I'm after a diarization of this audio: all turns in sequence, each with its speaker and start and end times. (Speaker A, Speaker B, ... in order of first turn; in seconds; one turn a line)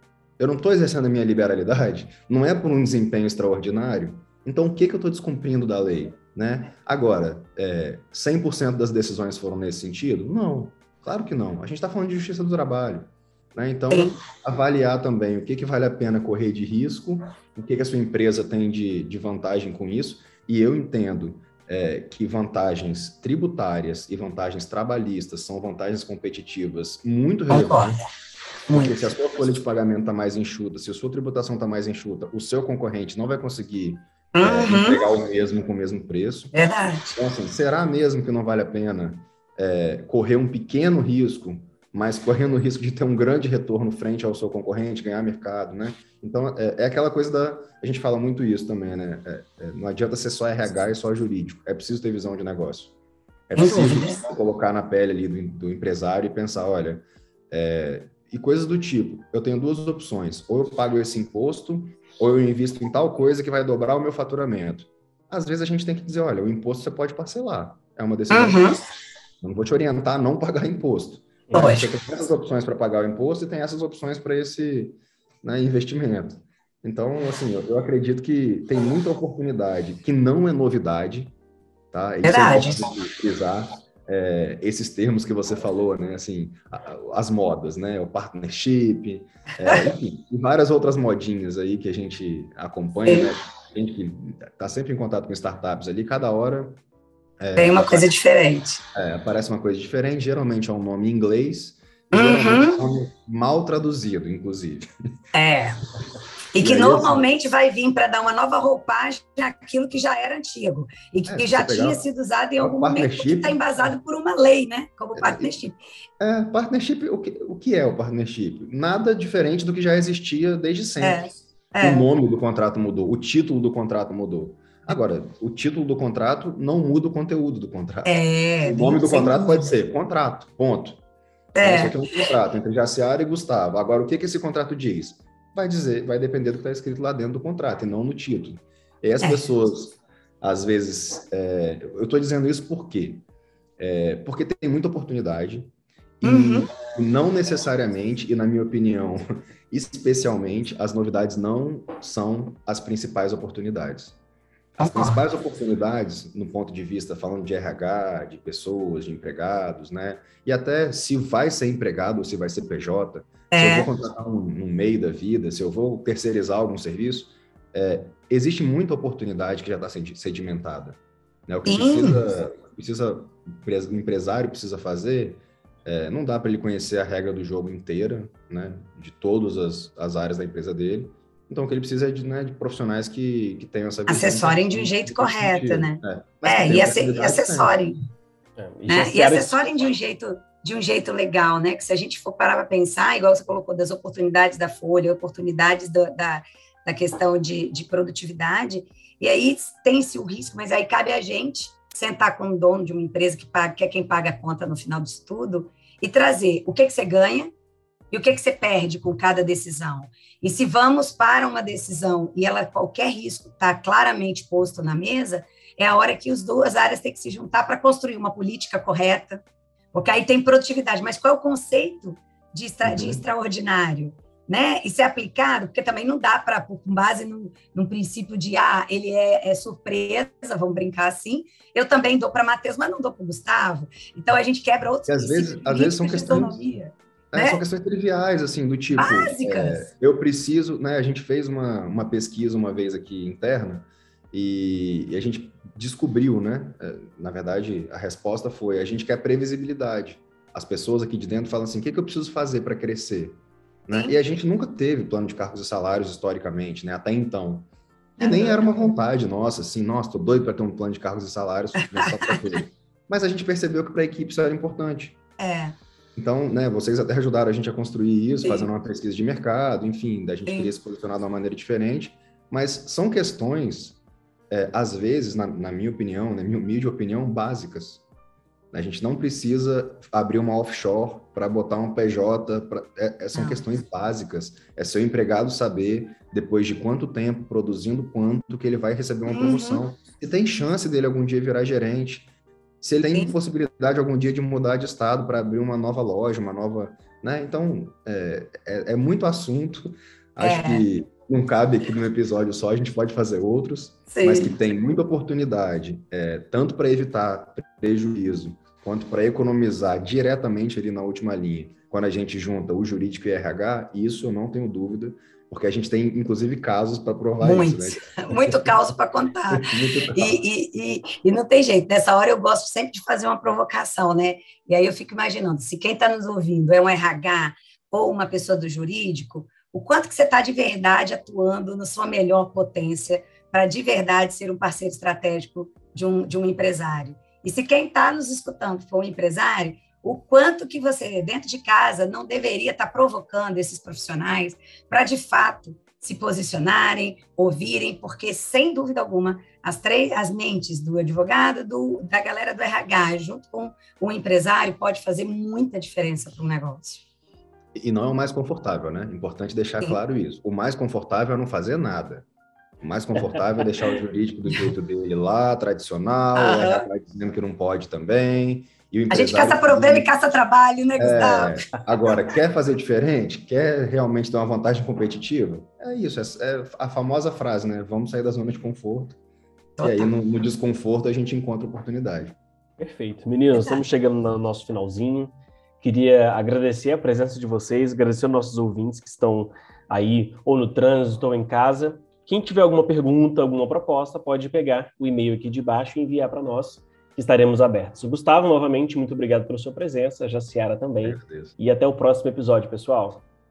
Speaker A: 0.4-28.0
Speaker B: 13.9-14.2
Speaker B: 27.5-28.0
Speaker B: 28.7-29.0
Speaker A: 28.7-36.5
Speaker B: 34.3-35.0
Speaker B: 36.5-37.2
Speaker A: 37.1-52.9
Speaker A: 53.5-68.6
Speaker B: 53.6-54.2
Speaker B: 68.3-68.8
Speaker A: 69.4-81.3
Speaker B: 71.5-71.9
Speaker A: 81.9-96.8
Speaker B: 82.2-82.9
Speaker B: 89.7-89.9
Speaker B: 93.1-93.3
Speaker A: 97.4-98.1
Speaker B: 97.6-98.8
Speaker A: 98.9-104.9
Speaker B: 102.1-102.8
Speaker B: 105.3-105.8
Speaker B: 106.5-115.8
Speaker A: 106.6-107.3
Speaker A: 111.3-112.1
Speaker A: 112.6-113.6
Speaker A: 115.2-115.5
Speaker A: 116.2-121.2
Speaker B: 121.0-122.0
Speaker A: 121.8-131.0
Speaker B: 128.1-129.7
Speaker B: 131.6-132.0
Speaker A: 131.6-143.2
Speaker B: 139.2-139.5
Speaker A: 143.8-154.2
Speaker B: 146.2-146.7
Speaker B: 154.8-155.2
Speaker A: 154.8-187.8
Speaker B: 163.5-163.9
Speaker B: 171.7-172.2
Speaker B: 184.1-188.0
Speaker C: 188.6-189.6
Speaker B: 188.9-207.5
Speaker B: 208.1-237.6
Speaker A: 222.8-223.2
Speaker A: 235.1-236.6
Speaker A: 237.3-257.7
Speaker B: 238.9-239.9
Speaker B: 253.9-254.2
Speaker B: 258.2-258.9
Speaker A: 258.2-265.2
Speaker B: 261.8-262.6
Speaker B: 265.4-265.8
Speaker A: 266.2-274.0
Speaker B: 270.5-270.7
Speaker A: 274.5-278.0
Speaker A: 278.7-292.3
Speaker B: 283.3-283.6
Speaker B: 289.3-289.8
Speaker A: 292.8-318.7
Speaker B: 300.4-300.9
Speaker B: 304.1-304.6
Speaker B: 317.4-357.0
Speaker A: 319.5-320.4
Speaker A: 357.8-362.2
Speaker A: 362.8-370.1
Speaker B: 366.4-366.9
Speaker B: 369.1-371.6
Speaker A: 371.0-379.2
Speaker B: 379.8-380.1
Speaker A: 379.8-382.4
Speaker C: 382.8-403.2
Speaker A: 401.0-401.6